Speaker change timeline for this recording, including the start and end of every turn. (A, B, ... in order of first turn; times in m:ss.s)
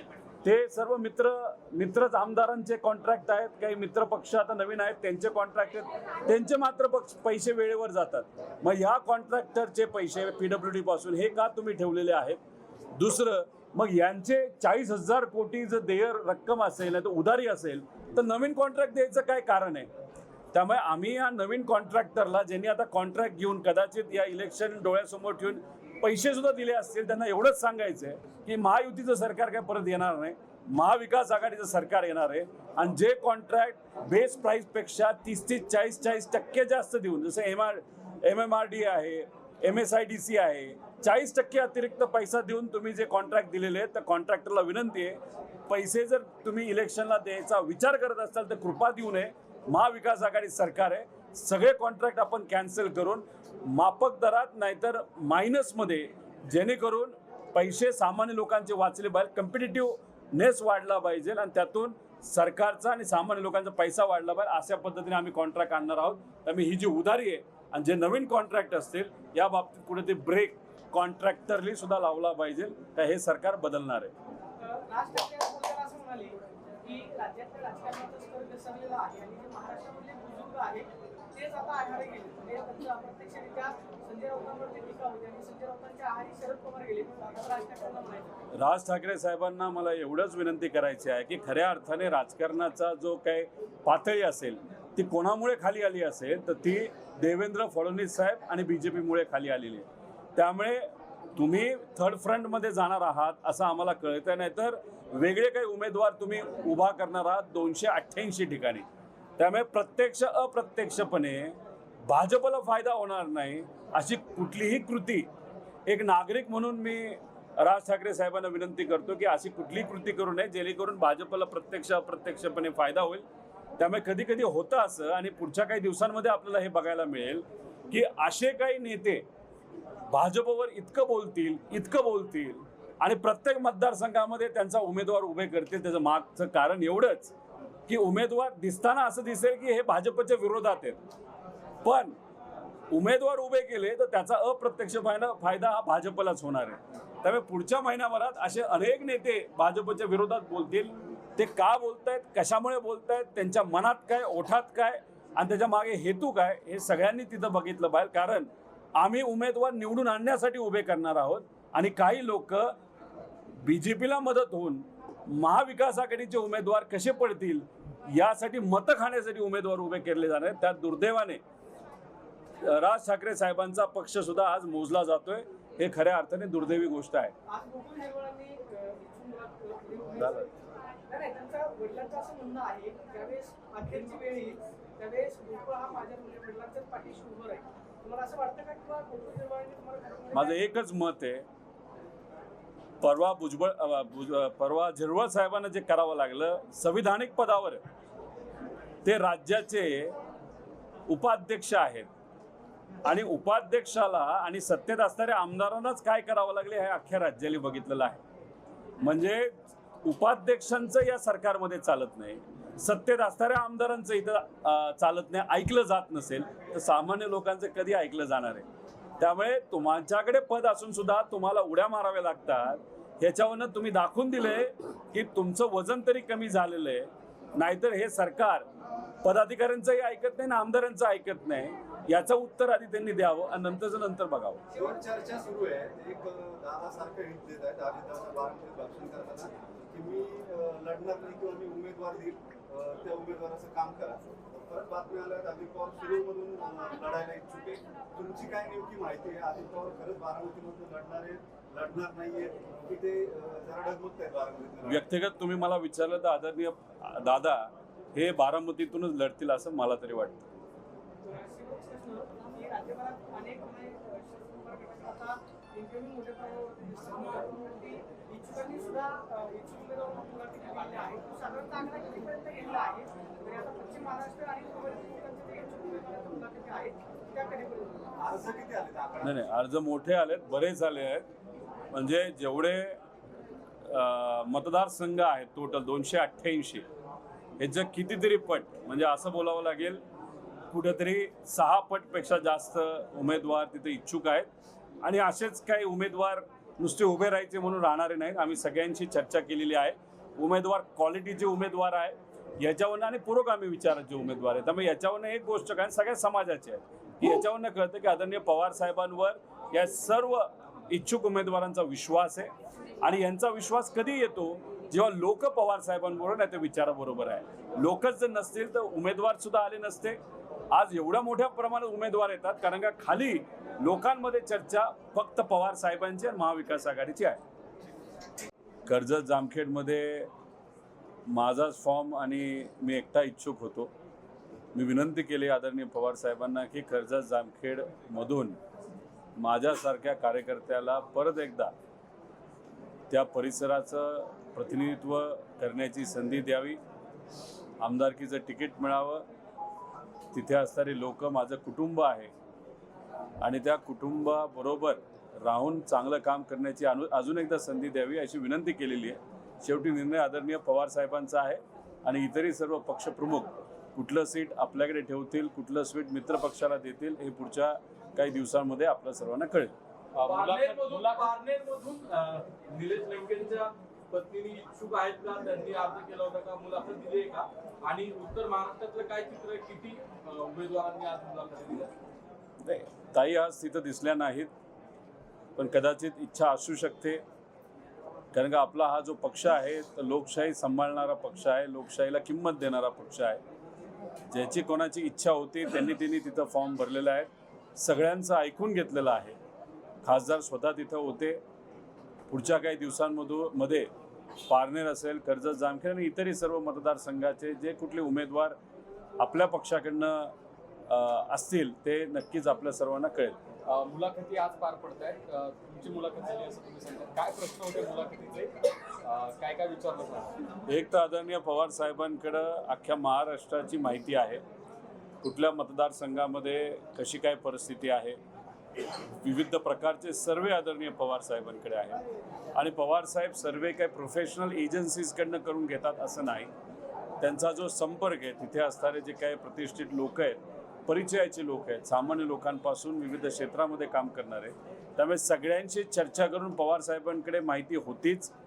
0:00.4-0:12.4 A
0:13.0-0:19.9 A
0:20.5-1:14.1 A
1:14.9-1:28.3 B
1:28.5-1:48.8 A
1:49.4-1:55.3 A
1:55.9-2:03.2 A
2:03.8-2:09.2 A
2:10.1-2:17.3 A
2:17.9-2:21.0 A
2:21.8-2:22.1 A
2:22.9-2:42.7 A
2:43.6-2:51.4 A
2:52.6-2:57.3 A
2:57.5-3:00.3 B
3:00.2-3:00.5 A
3:01.1-3:10.5 B
3:10.3-3:11.4 A
3:13.0-3:17.8 A
3:19.0-3:20.1 A
3:21.1-3:22.1 A
3:23.0-3:28.2 A
3:29.0-3:29.5 A
3:30.0-3:38.6 A
3:39.2-3:48.6 A
3:49.2-3:54.6 A
3:54.7-4:15.0 C
4:14.8-4:20.4 A
4:21.2-4:38.0 B
4:38.2-4:39.4 C
4:39.2-4:41.2 A
4:41.9-4:43.0 A
4:43.8-4:46.8 A
4:47.6-4:50.0 A
4:50.7-4:54.5 A
4:55.0-5:20.2 A
5:20.7-5:27.4 A
5:28.8-5:30.3 A
5:31.3-5:33.9 A
5:34.7-5:38.6 A
5:39.4-5:41.7 A
5:43.1-5:46.8 A
5:47.8-5:49.2 A
5:50.3-5:52.3 A
5:53.4-6:09.7 A
6:10.1-6:11.3 D
6:10.2-6:21.9 E
6:22.6-6:24.5 A
6:25.6-6:27.2 A
6:28.3-6:33.4 A
6:34.3-6:39.4 A
6:40.0-6:41.4 A
6:42.3-6:43.9 A
6:44.5-6:48.6 A
6:49.2-6:50.3 A
6:50.9-6:53.4 A
6:53.6-7:00.3 D
7:00.7-7:04.4 A
7:05.2-7:08.2 A
7:09.2-7:12.0 A
7:12.5-7:16.5 A
7:17.2-7:28.3 A